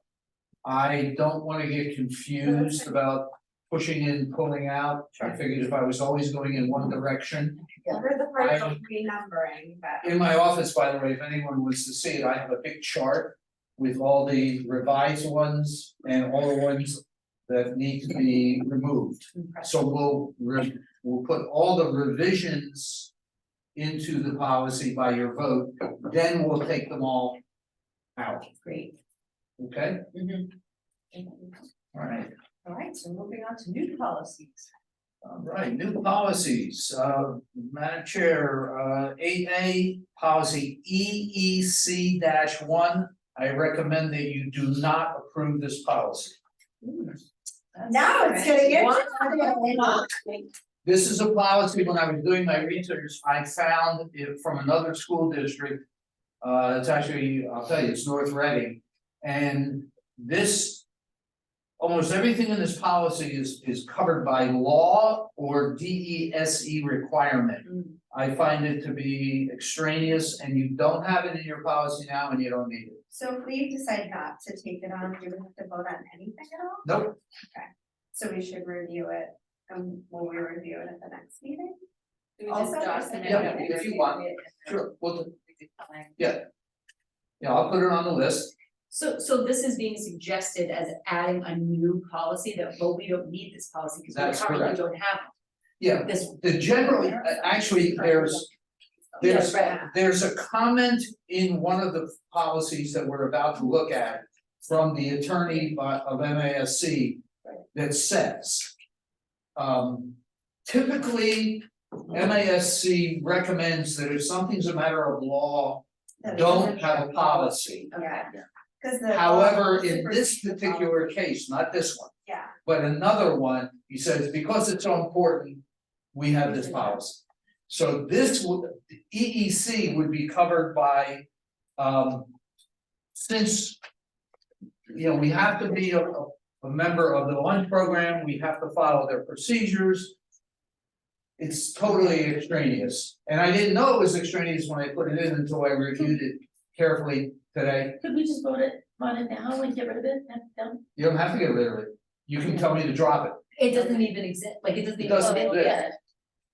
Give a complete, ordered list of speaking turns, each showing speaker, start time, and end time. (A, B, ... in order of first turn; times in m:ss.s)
0:00.6-0:07.7 A
0:07.9-0:10.2 B
0:08.4-0:08.8 A
0:10.0-0:23.1 A
0:19.3-0:19.7 C
0:23.8-0:27.4 A
0:28.2-0:28.4 A
0:28.5-0:28.9 C
0:29.6-0:30.1 A
0:30.2-0:30.5 C
0:31.1-0:31.6 B
0:31.9-0:32.3 A
0:32.6-0:34.7 B
0:35.2-0:46.4 A
0:46.8-0:47.2 B
0:47.8-0:50.4 B
0:50.8-0:55.8 A
0:56.4-1:00.8 A
1:01.8-1:13.0 A
1:13.1-1:16.9 B
1:16.8-1:17.2 A
1:17.5-1:21.8 B
1:22.4-1:24.3 C
1:22.5-1:24.2 B
1:23.2-1:25.3 A
1:26.2-1:26.5 A
1:27.4-1:28.5 A
1:28.9-1:35.3 C
1:34.1-1:34.8 A
1:35.8-1:38.5 A
1:36.0-1:36.4 C
1:39.2-1:48.7 A
1:39.2-1:39.9 C
1:49.6-1:57.9 A
1:56.2-2:01.1 B
1:57.9-1:58.4 C
1:59.1-2:02.1 A
2:02.2-2:02.5 B
2:02.6-2:05.6 A
2:06.1-2:11.2 A
2:11.8-2:12.3 A
2:13.2-2:13.8 A
2:14.9-2:20.2 A
2:21.4-2:28.0 A
2:28.0-2:30.8 D
2:31.0-2:33.4 A
2:33.6-2:35.7 C
2:35.0-2:35.8 A
2:35.2-2:36.0 D